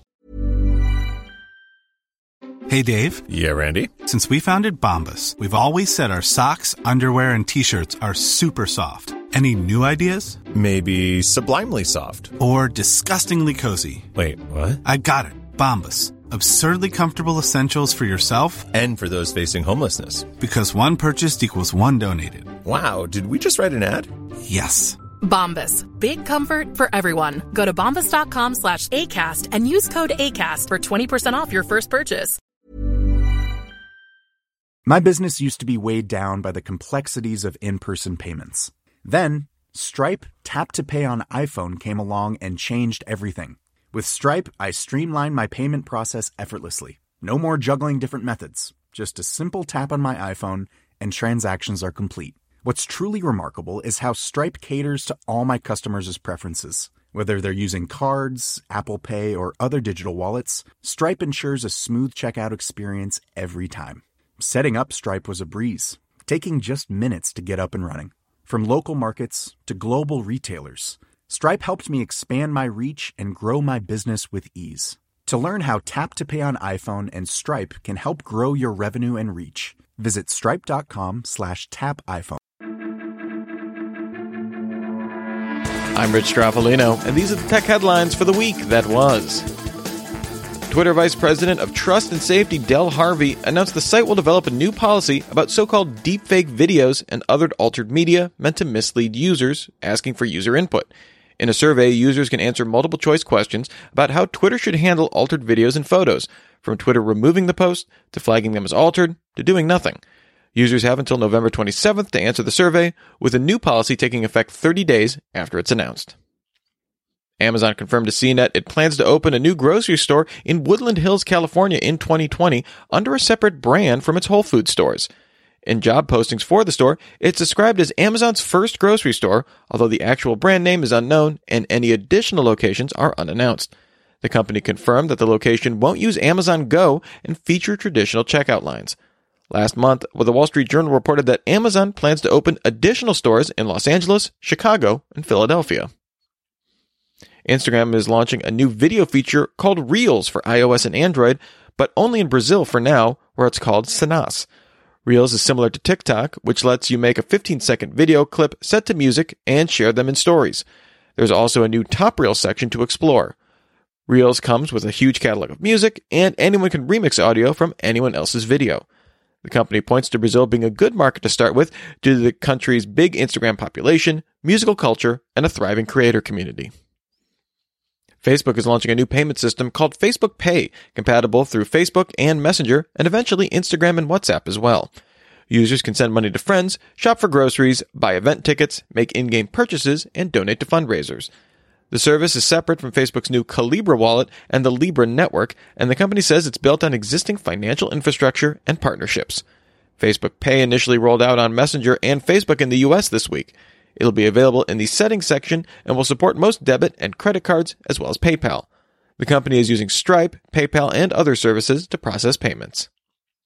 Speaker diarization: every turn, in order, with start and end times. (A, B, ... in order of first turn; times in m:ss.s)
0:02.7-0:03.2 A
0:03.3-0:03.9 B
0:04.0-0:10.4 A
0:10.6-0:12.3 B
0:12.4-0:14.1 A
0:14.2-0:14.8 B
0:14.8-0:18.7 A
0:18.8-0:20.3 B
0:20.4-0:22.6 A
0:22.7-0:24.0 B
0:24.5-0:25.0 A
0:25.2-0:32.4 C
0:34.9-1:22.4 D
1:26.0-1:29.4 E
1:30.7-1:50.0 E
1:50.6-1:56.1 E
1:57.4-2:05.1 E
2:05.7-2:13.7 E
2:14.2-2:19.0 E
2:19.5-2:25.9 E
2:27.5-2:34.5 E
2:35.0-2:40.6 E
2:41.2-2:43.4 E
2:44.1-2:48.8 E
2:49.4-2:56.7 E
2:58.2-3:04.9 E
3:05.5-3:11.3 E
3:11.9-3:19.4 E
3:20.0-3:28.7 E
3:29.2-3:32.9 E